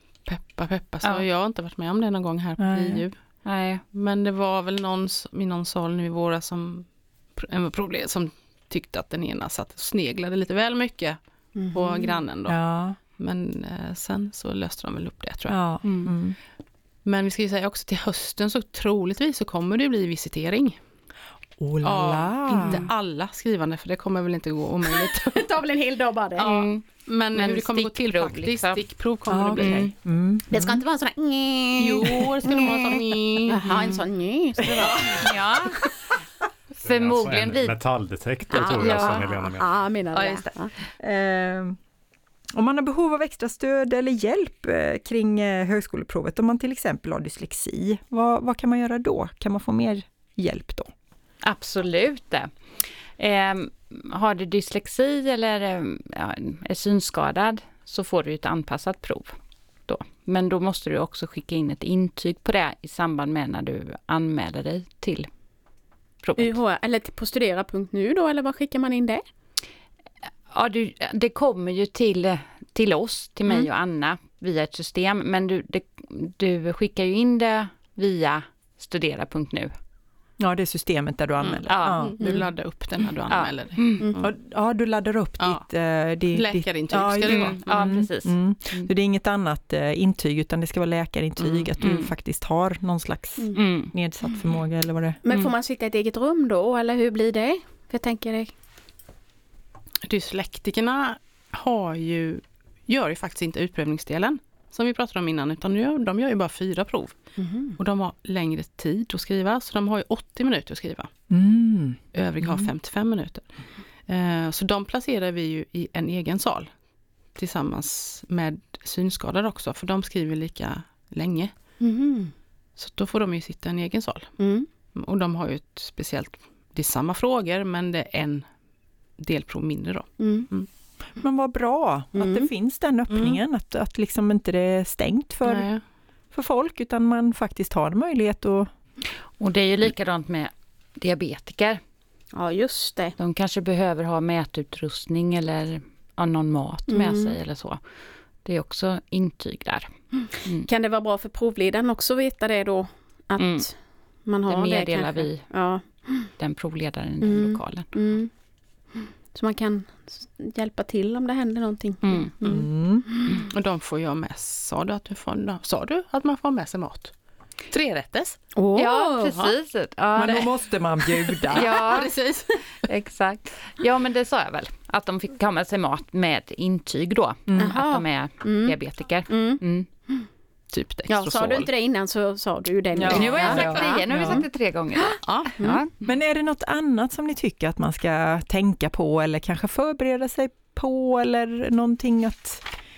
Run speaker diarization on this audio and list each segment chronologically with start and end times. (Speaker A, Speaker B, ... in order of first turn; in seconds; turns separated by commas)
Speaker A: 0.2-3.1, Speaker B: 2.6-3.0, Speaker C: 3.4-3.8, Speaker A: 3.9-6.8, Speaker A: 7.4-11.2, Speaker D: 11.5-12.2, Speaker A: 11.7-12.6, Speaker B: 12.5-13.0, Speaker A: 13.2-15.6, Speaker B: 15.5-16.4, Speaker C: 15.8-16.1, Speaker A: 17.0-20.8, Speaker B: 21.6-22.9, Speaker A: 21.8-25.6, Speaker D: 24.9-26.6, Speaker A: 26.4-29.9, Speaker C: 26.4-28.8, Speaker B: 29.3-30.7, Speaker D: 30.5-35.9, Speaker A: 31.8-34.0, Speaker A: 34.8-35.1, Speaker C: 35.1-35.8, Speaker E: 36.8-39.8, Speaker C: 36.8-37.8, Speaker D: 38.5-40.7, Speaker C: 38.5-39.3, Speaker C: 40.1-40.5, Speaker B: 41.0-41.8, Speaker B: 42.5-50.9, Speaker C: 51.4-52.5, Speaker C: 53.2-59.3, Speaker C: 59.9-65.3, Speaker C: 66.2-66.6, Speaker D: 66.4-69.2, Speaker C: 70.5-79.7, Speaker B: 80.4-82.5, Speaker C: 81.6-82.1, Speaker A: 82.0-84.3, Speaker C: 83.3-84.1, Speaker B: 84.2-95.2, Speaker A: 86.3-87.6, Speaker C: 87.2-88.9, Speaker C: 91.4-92.1, Speaker C: 93.5-93.9, Speaker D: 95.2-98.5, Speaker A: 100.0-107.1, Speaker D: 107.4-107.8, Speaker A: 107.8-111.1, Speaker B: 111.3-112.7, Speaker A: 112.1-113.4, Speaker A: 114.1-116.7, Speaker A: 117.3-121.5, Speaker D: 121.8-122.3, Speaker A: 122.8-124.3, Speaker D: 124.4-124.7, Speaker A: 124.9-128.4, Speaker A: 129.2-130.7, Speaker D: 130.2-130.5, Speaker B: 131.2-135.7, Speaker D: 132.2-132.5, Speaker A: 133.1-133.4, Speaker A: 135.4-135.8, Speaker B: 136.3-138.7, Speaker C: 139.4-141.8, Speaker D: 142.3-143.2, Speaker C: 143.2-147.8, Speaker D: 146.9-147.4, Speaker C: 148.4-149.9, Speaker D: 150.6-153.7, Speaker C: 153.4-153.7, Speaker D: 154.2-156.3, Speaker C: 154.5-155.4, Speaker C: 156.4-157.9, Speaker D: 157.2-158.3, Speaker D: 159.3-163.4, Speaker C: 162.0-162.3, Speaker B: 162.4-163.1, Speaker A: 163.4-167.1, Speaker A: 167.7-168.4, Speaker D: 168.5-169.5, Speaker C: 168.7-170.6, Speaker B: 170.1-171.8, Speaker A: 171.3-172.8, Speaker C: 171.5-172.1, Speaker C: 172.8-179.9, Speaker B: 177.5-177.8, Speaker D: 177.6-178.8, Speaker D: 179.3-180.2, Speaker A: 180.7-181.7, Speaker D: 181.1-184.4, Speaker B: 182.9-184.4, Speaker C: 183.1-185.9, Speaker A: 183.4-183.8, Speaker D: 185.0-185.8, Speaker A: 185.2-185.8, Speaker B: 186.0-192.6